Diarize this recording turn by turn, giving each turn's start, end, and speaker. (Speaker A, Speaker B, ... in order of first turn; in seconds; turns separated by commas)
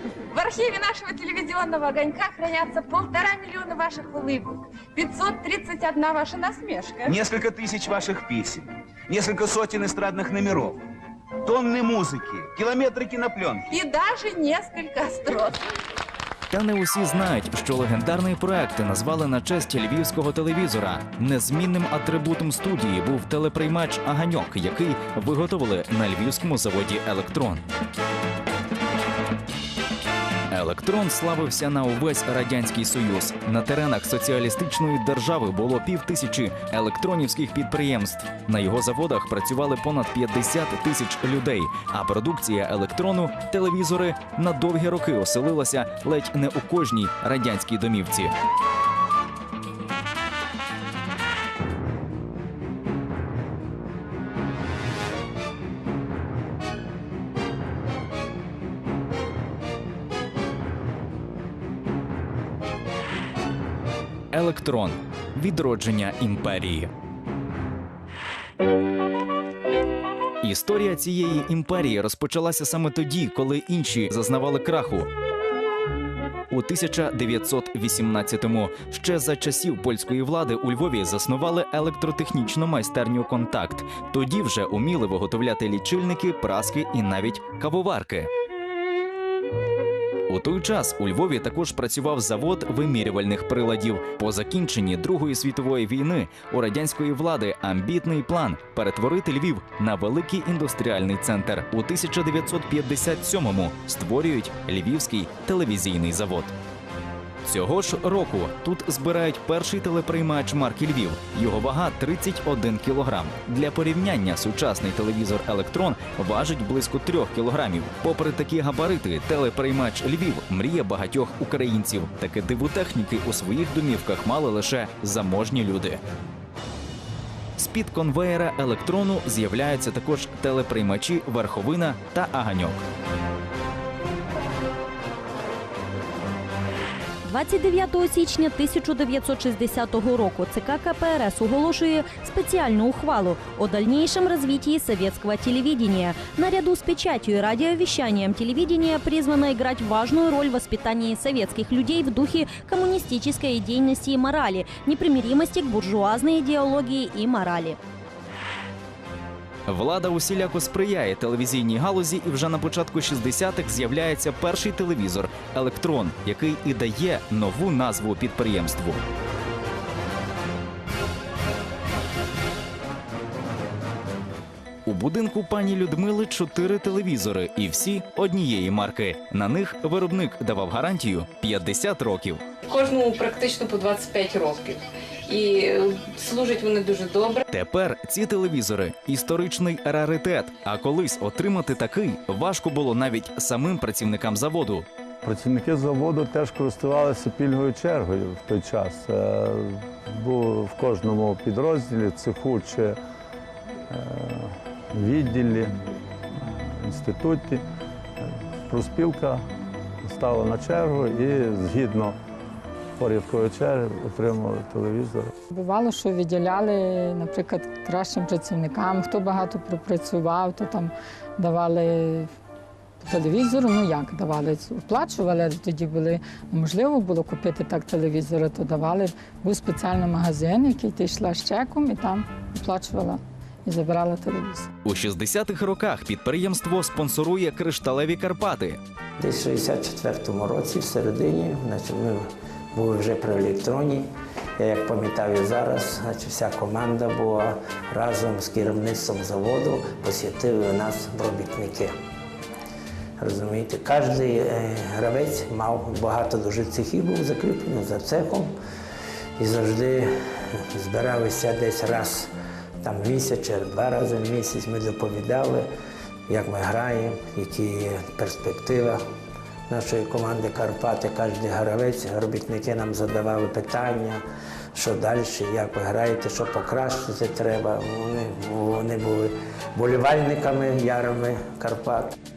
Speaker A: 0.3-7.1, Speaker B: 7.1-10.8, Speaker B: 11.4-13.6, Speaker A: 13.7-15.6, Speaker C: 16.5-27.6, Speaker C: 30.5-48.3, Speaker C: 64.3-66.9, Speaker C: 70.4-75.1, Speaker C: 76.5-88.3, Speaker C: 90.3-106.5, Speaker C: 107.4-126.0, Speaker C: 127.6-132.8, Speaker D: 137.2-157.8, Speaker C: 159.7-169.0, Speaker C: 174.8-182.4, Speaker E: 182.7-187.4, Speaker C: 187.5-194.8, Speaker F: 195.2-203.0, Speaker F: 203.9-205.7, Speaker F: 206.3-207.6, Speaker F: 208.2-209.4, Speaker F: 210.0-212.2, Speaker F: 213.0-215.3, Speaker G: 215.5-222.3, Speaker G: 223.0-234.7, Speaker C: 234.8-238.8, Speaker H: 239.2-251.9, Speaker H: 253.2-258.5, Speaker H: 259.4-262.3, Speaker H: 262.8-265.7, Speaker H: 266.3-269.0, Speaker H: 269.7-274.2, Speaker H: 274.7-282.1